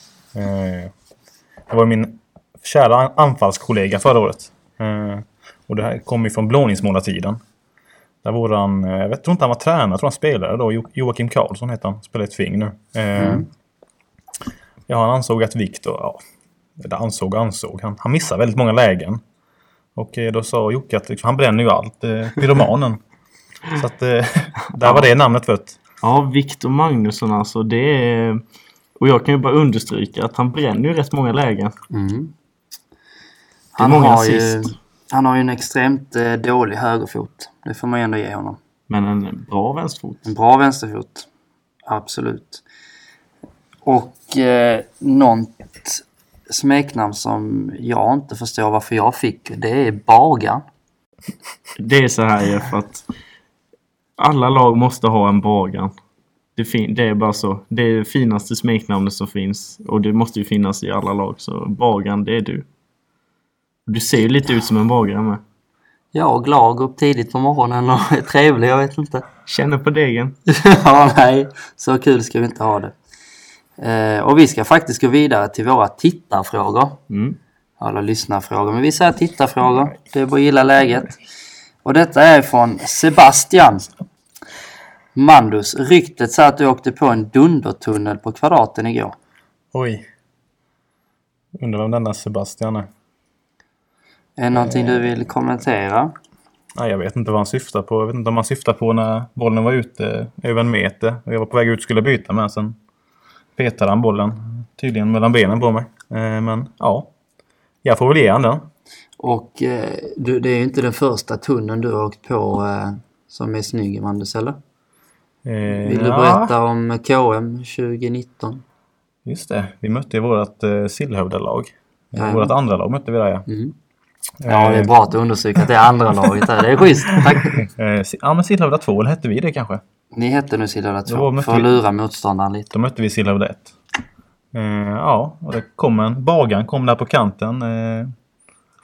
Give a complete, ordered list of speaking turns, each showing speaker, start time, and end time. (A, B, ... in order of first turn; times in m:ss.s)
0:00.3-0:00.9 A
0:01.7-0:07.4 A
0:08.2-0:13.5 A
0:13.2-0:13.5 B
0:14.9-0:16.2 A
0:16.8-0:19.2 A
0:20.0-0:23.0 A
0:23.7-0:25.8 A
0:26.0-0:28.4 C
0:29.0-0:31.7 C
0:31.9-0:32.3 B
0:33.8-0:34.7 C
0:33.8-0:38.6 B
0:38.9-0:40.2 C
0:40.2-0:41.3 B
0:41.9-0:42.6 B
0:43.8-0:50.6 B
0:51.8-0:53.0 C
0:54.2-0:55.9 C
0:56.6-1:02.7 C
1:03.9-1:05.4 C
1:06.1-1:09.2 B
1:09.5-1:10.4 C
1:10.5-1:12.9 B
1:13.8-1:17.0 B
1:17.1-1:17.4 C
1:17.8-1:21.1 B
1:21.8-1:23.9 B
1:25.2-1:29.2 B
1:29.7-1:30.1 A
1:31.5-1:32.9 A
1:34.4-1:36.1 B
1:34.5-1:35.1 A
1:36.8-1:42.8 A
1:43.6-1:47.1 A
1:47.8-1:48.7 A
1:49.2-1:54.6 B
1:55.4-1:56.5 A
1:55.7-1:58.6 B
1:59.2-2:03.4 A
2:02.2-2:02.5 B
2:03.5-2:03.7 B
2:04.4-2:04.9 A
2:04.5-2:07.6 B
2:07.4-2:09.8 A
2:10.1-2:12.7 B
2:11.1-2:11.8 A
2:12.7-2:13.7 A
2:14.5-2:18.1 A